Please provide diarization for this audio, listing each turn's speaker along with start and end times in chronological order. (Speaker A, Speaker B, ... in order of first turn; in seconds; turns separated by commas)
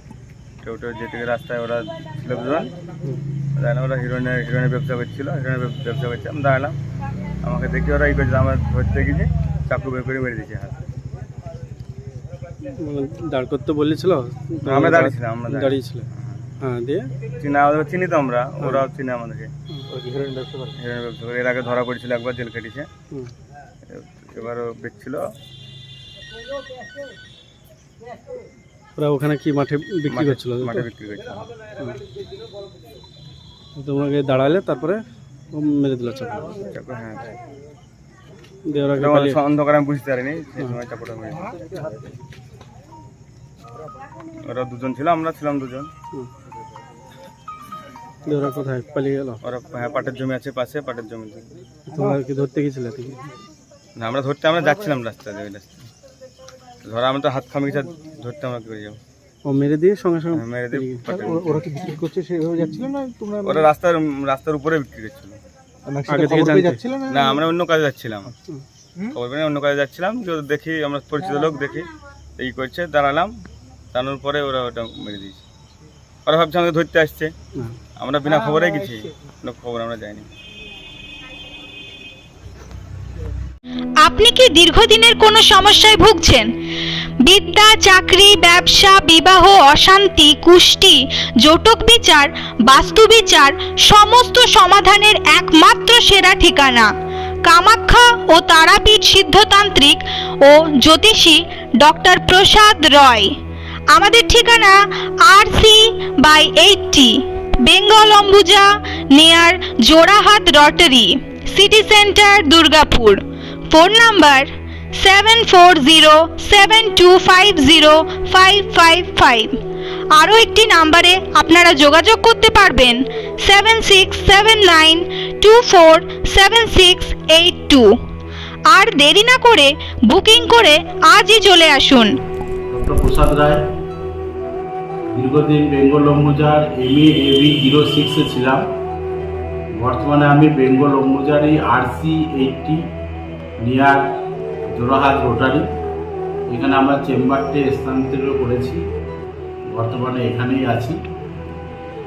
Speaker A: 0.6-2.7, Speaker A: 3.6-6.8, Speaker A: 7.4-10.8, Speaker B: 12.8-16.1, Speaker A: 14.7-16.5, Speaker B: 16.6-17.1, Speaker A: 17.4-19.5, Speaker C: 20.0-20.7, Speaker A: 20.8-22.9, Speaker A: 23.9-25.2, Speaker B: 29.0-30.9, Speaker A: 30.1-31.5, Speaker B: 33.8-35.0, Speaker B: 35.5-36.5, Speaker A: 36.5-37.3, Speaker B: 38.7-39.4, Speaker A: 39.0-41.5, Speaker A: 44.5-45.9, Speaker B: 48.3-49.4, Speaker A: 49.4-51.5, Speaker B: 51.9-53.2, Speaker A: 54.0-55.7, Speaker A: 56.8-59.0, Speaker B: 59.5-61.0, Speaker A: 60.4-61.7, Speaker C: 61.5-63.5, Speaker A: 63.4-65.4, Speaker C: 65.9-67.1, Speaker B: 66.1-66.8, Speaker A: 67.1-68.4, Speaker A: 69.1-73.3, Speaker A: 73.9-75.4, Speaker A: 76.3-77.3, Speaker A: 78.0-80.3, Speaker D: 84.0-86.5, Speaker D: 87.2-96.9, Speaker D: 97.5-103.4, Speaker D: 103.9-119.6, Speaker D: 120.2-127.9, Speaker D: 128.7-132.2, Speaker E: 132.7-133.6, Speaker E: 135.1-138.6, Speaker E: 139.8-142.8, Speaker E: 143.6-144.1, Speaker E: 144.7-145.7, Speaker E: 146.5-148.8, Speaker E: 149.7-151.0